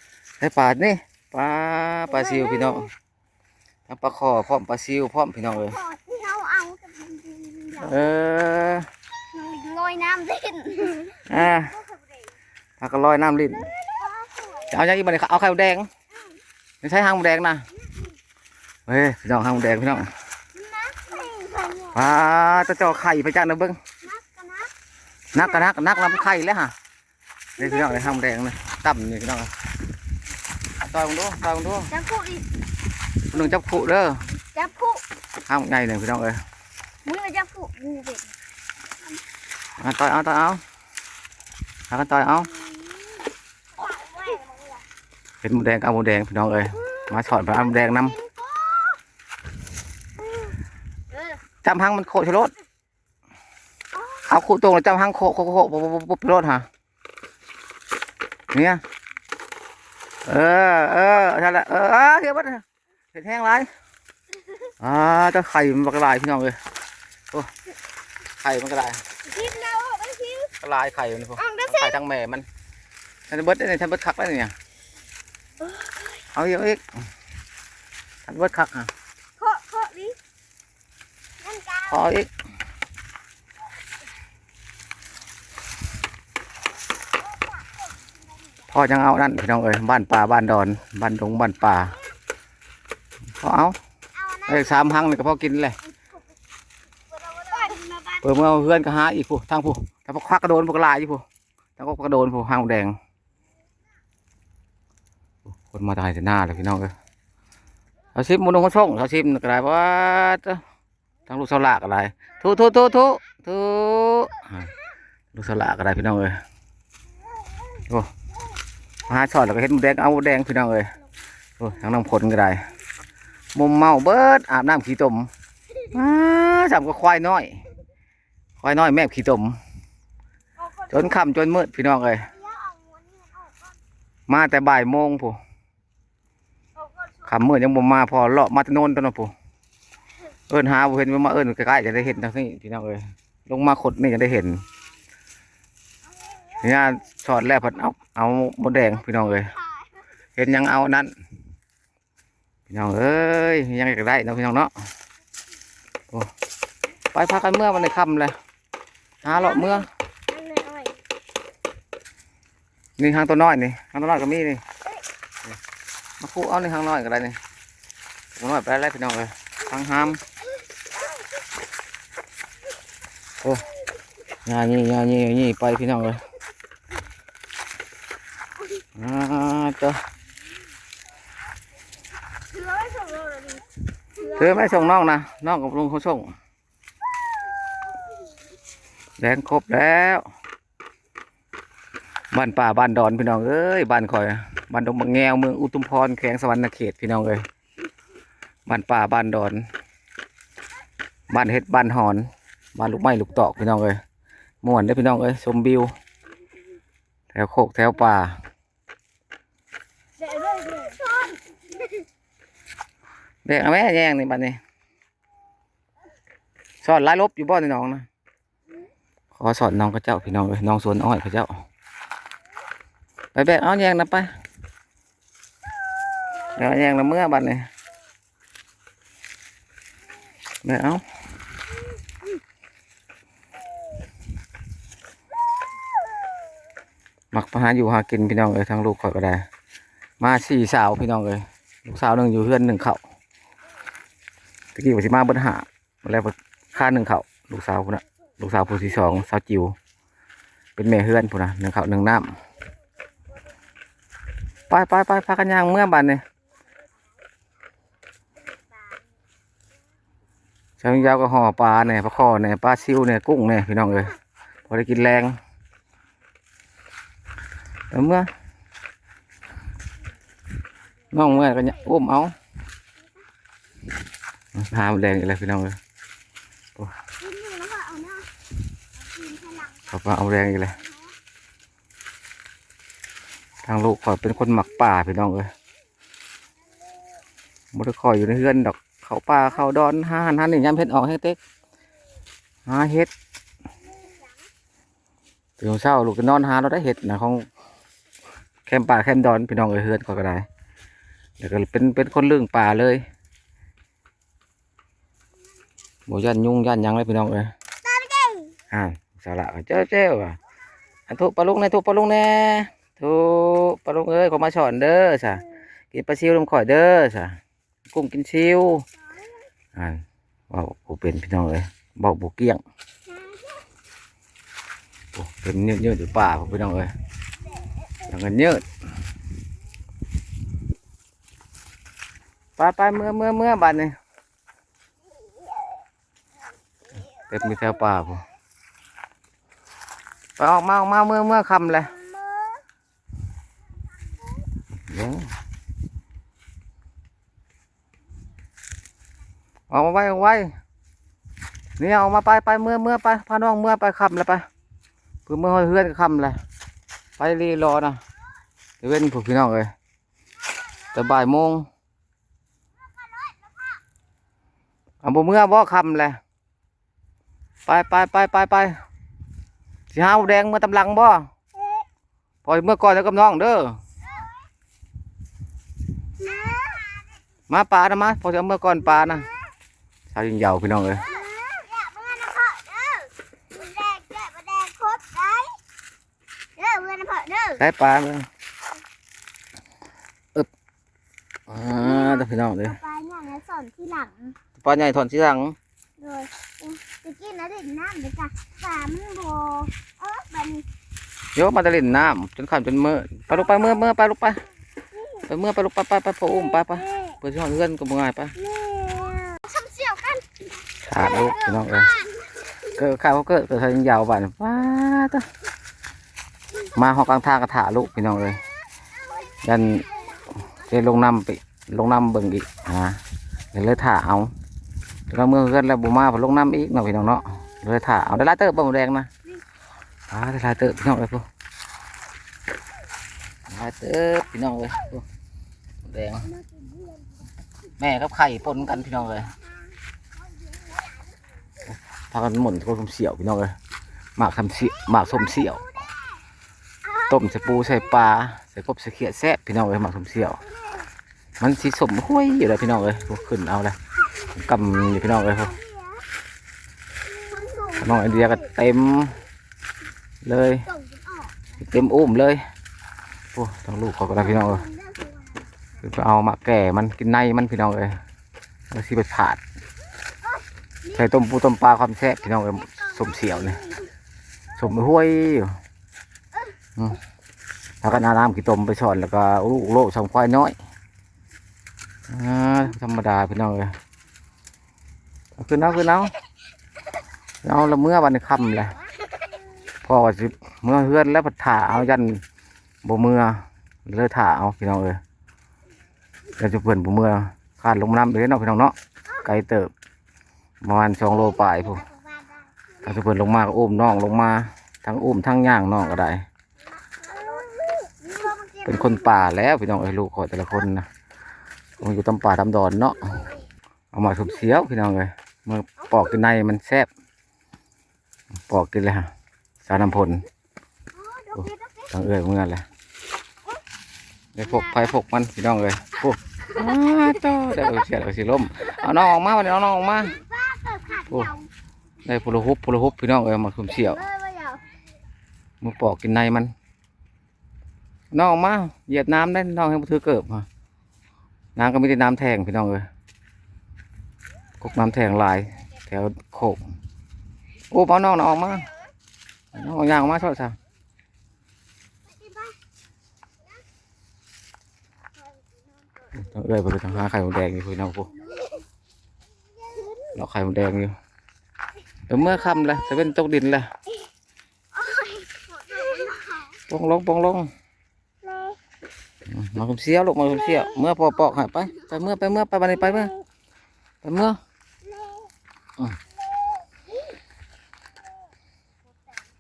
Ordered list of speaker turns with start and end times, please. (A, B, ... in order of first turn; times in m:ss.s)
0:00.4-0:02.9 A
0:02.1-0:02.9 B
0:03.9-0:05.8 A
0:05.6-0:08.1 B
0:07.8-0:08.9 A
0:09.3-0:12.2 B
0:11.3-0:11.7 A
0:12.8-0:13.7 A
0:13.7-0:14.8 B
0:14.7-0:15.9 A
0:16.8-0:17.6 A
0:18.9-0:20.1 A
0:20.6-0:22.1 B
0:21.9-0:23.8 A
0:24.0-0:24.7 B
0:25.3-0:26.7 A
0:25.4-0:25.6 B
0:27.6-0:28.2 B
0:27.6-0:29.5 A
0:30.8-0:31.9 A
0:31.9-0:32.5 B
0:33.3-0:34.2 A
0:34.5-0:35.0 B
0:35.5-0:36.4 A
0:37.0-0:38.3 B
0:39.8-0:40.6 A
0:41.9-0:42.5 A
0:42.5-0:43.2 B
0:43.8-0:44.6 B
0:45.4-0:48.2 A
0:47.3-0:49.0 B
0:51.6-0:52.5 A
0:54.0-0:54.2 B
0:54.3-0:56.7 A
0:58.5-0:58.8 A
1:00.3-1:03.7 A
1:04.8-1:06.6 A
1:08.4-1:09.0 A
1:09.3-1:10.5 B
1:10.6-1:12.5 A
1:11.4-1:12.0 B
1:13.3-1:14.5 A
1:16.3-1:16.8 A
1:18.3-1:18.9 A
1:19.4-1:20.2 B
1:21.4-1:22.0 B
1:21.9-1:22.3 A
1:27.5-1:28.1 B
1:28.7-1:32.0 A
1:31.9-1:32.1 B
1:33.4-1:33.8 A
1:34.2-1:34.9 B
1:34.5-1:35.8 A
1:37.2-1:38.2 B
1:38.2-1:41.2 A
1:41.8-1:43.0 A
1:45.6-1:46.9 A
1:48.2-1:50.6 A
1:51.3-1:54.8 A
1:55.3-1:56.4 A
1:59.1-2:00.9 A
2:01.6-2:02.6 A
2:03.6-2:05.3 A
2:05.9-2:07.6 A
2:08.6-2:09.6 A
2:10.9-2:12.3 A
2:12.3-2:13.8 B
2:14.3-2:15.4 A
2:17.2-2:19.3 A
2:20.5-2:24.6 A
2:26.6-2:29.5 A
2:30.4-2:31.1 A
2:32.7-2:34.7 A
2:37.1-2:38.4 A
2:39.2-2:39.9 A
2:39.3-2:41.0 B
2:43.0-2:44.6 A
2:46.2-2:47.4 A
2:48.4-2:50.2 A
2:54.4-2:56.2 A
2:59.0-3:00.0 A
3:02.5-3:03.6 B
3:04.2-3:04.9 B
3:04.3-3:06.3 A
3:09.2-3:10.3 A
3:12.3-3:17.4 A
3:18.7-3:19.7 A
3:21.3-3:24.0 A
3:24.6-3:25.9 A
3:27.3-3:28.4 A
3:30.2-3:32.0 B
3:33.4-3:34.6 A
3:36.8-3:38.1 A
3:39.3-3:41.6 A
3:43.3-3:44.3 A
3:46.6-3:47.7 A
3:50.6-3:51.0 A
3:57.3-3:59.5 A
4:00.2-4:03.0 A
4:04.8-4:09.8 A
4:10.8-4:12.4 A
4:14.7-4:16.2 A
4:20.8-4:24.2 A
4:24.7-4:25.4 A
4:27.9-4:28.3 A
4:31.1-4:32.3 A
4:34.6-4:35.8 A
4:37.2-4:38.3 B
4:39.0-4:41.2 B
4:39.9-4:40.8 A
4:43.6-4:45.5 A
4:47.7-4:51.4 A
4:52.7-4:53.1 A
4:55.6-4:57.5 A
4:58.7-5:00.5 A
5:01.4-5:03.0 A
5:06.1-5:07.5 A
5:07.8-5:08.6 B
5:08.7-5:10.4 A
5:11.1-5:17.4 A
5:17.9-5:18.8 A
5:19.2-5:19.4 B
5:19.7-5:22.6 A
5:23.1-5:23.7 B
5:25.1-5:26.9 A
5:28.1-5:28.7 A
5:32.6-5:34.0 A
5:37.3-5:38.2 A
5:40.4-5:42.0 A
5:42.0-5:42.6 B
5:44.9-5:45.3 A
5:49.7-5:50.5 A
5:51.8-5:54.5 A
5:55.3-5:56.4 A
5:57.2-5:58.0 A
5:58.8-5:59.7 A
6:00.5-6:01.0 B
6:00.9-6:01.7 A
6:02.8-6:03.8 B
6:05.0-6:06.2 A
6:07.7-6:08.8 A
6:09.9-6:11.3 A
6:11.6-6:11.8 B
6:12.4-6:13.8 A
6:16.2-6:17.0 B
6:17.5-6:19.3 A
6:20.1-6:21.0 A
6:21.0-6:25.6 B
6:26.6-6:27.6 B
6:27.6-6:28.3 A
6:31.5-6:32.8 A
6:31.8-6:34.4 B
6:34.6-6:35.6 A
6:36.0-6:40.7 B
6:41.4-6:44.4 A
6:45.0-6:45.2 B
6:45.3-6:48.3 A
6:46.6-6:47.2 B
6:48.4-6:50.3 B
6:50.8-6:51.9 A
6:51.1-6:52.3 B
6:52.8-6:55.3 A
6:56.8-6:58.4 A
6:59.0-7:00.2 B
6:59.4-6:59.9 A
7:00.4-7:03.0 A
7:03.5-7:04.3 A
7:05.1-7:09.1 A
7:10.1-7:11.3 A
7:13.5-7:15.0 A
7:15.8-7:16.3 A
7:16.3-7:17.1 B
7:17.8-7:19.4 A
7:19.3-7:21.2 B
7:22.1-7:23.6 A
7:24.2-7:25.6 A
7:24.8-7:26.2 B
7:26.8-7:28.1 B
7:27.1-7:30.4 A
7:30.4-7:30.9 B
7:31.4-7:33.8 A
7:34.3-7:35.6 A
7:34.9-7:36.1 B
7:37.1-7:38.5 B
7:37.8-7:39.2 A
7:40.2-7:40.7 A
7:40.7-7:41.5 B
7:41.6-7:42.4 A
7:43.3-7:44.6 A
7:44.1-7:45.8 B
7:45.8-7:48.0 A
7:48.7-7:49.4 A
7:50.2-7:51.0 B
7:50.9-7:53.6 A
7:53.0-7:53.9 B
7:54.6-7:55.5 A
7:57.8-8:00.6 A
8:02.1-8:03.7 A
8:05.4-8:06.1 A
8:07.4-8:08.8 A
8:09.8-8:12.2 A
8:12.8-8:15.0 A
8:16.4-8:19.7 A
8:20.6-8:21.8 A
8:21.0-8:22.8 B
8:22.8-8:26.2 A
8:26.8-8:29.3 B
8:28.7-8:30.9 A
8:31.8-8:33.3 A
8:33.9-8:36.9 A
8:38.5-8:39.1 A
8:39.6-8:40.2 A
8:40.9-8:41.9 B
8:41.4-8:42.6 A
8:44.4-8:50.2 A
8:44.4-8:45.0 B
8:50.0-8:51.5 B
8:52.0-8:54.0 A
8:53.7-8:54.7 B
8:55.6-8:56.5 A
8:58.1-9:00.5 A
9:01.6-9:02.9 A
9:04.6-9:06.6 A
9:07.7-9:08.7 A
9:09.6-9:10.6 A
9:12.0-9:12.6 B
9:15.3-9:15.9 B
9:16.2-9:18.1 A
9:18.1-9:18.6 B
9:19.6-9:20.1 B
9:20.2-9:21.0 A
9:22.1-9:23.7 A
9:24.7-9:26.6 B
9:26.7-9:27.5 A
9:28.2-9:28.6 B
9:29.3-9:33.1 A
9:32.9-9:33.2 B
9:34.0-9:34.4 A
9:34.9-9:35.3 B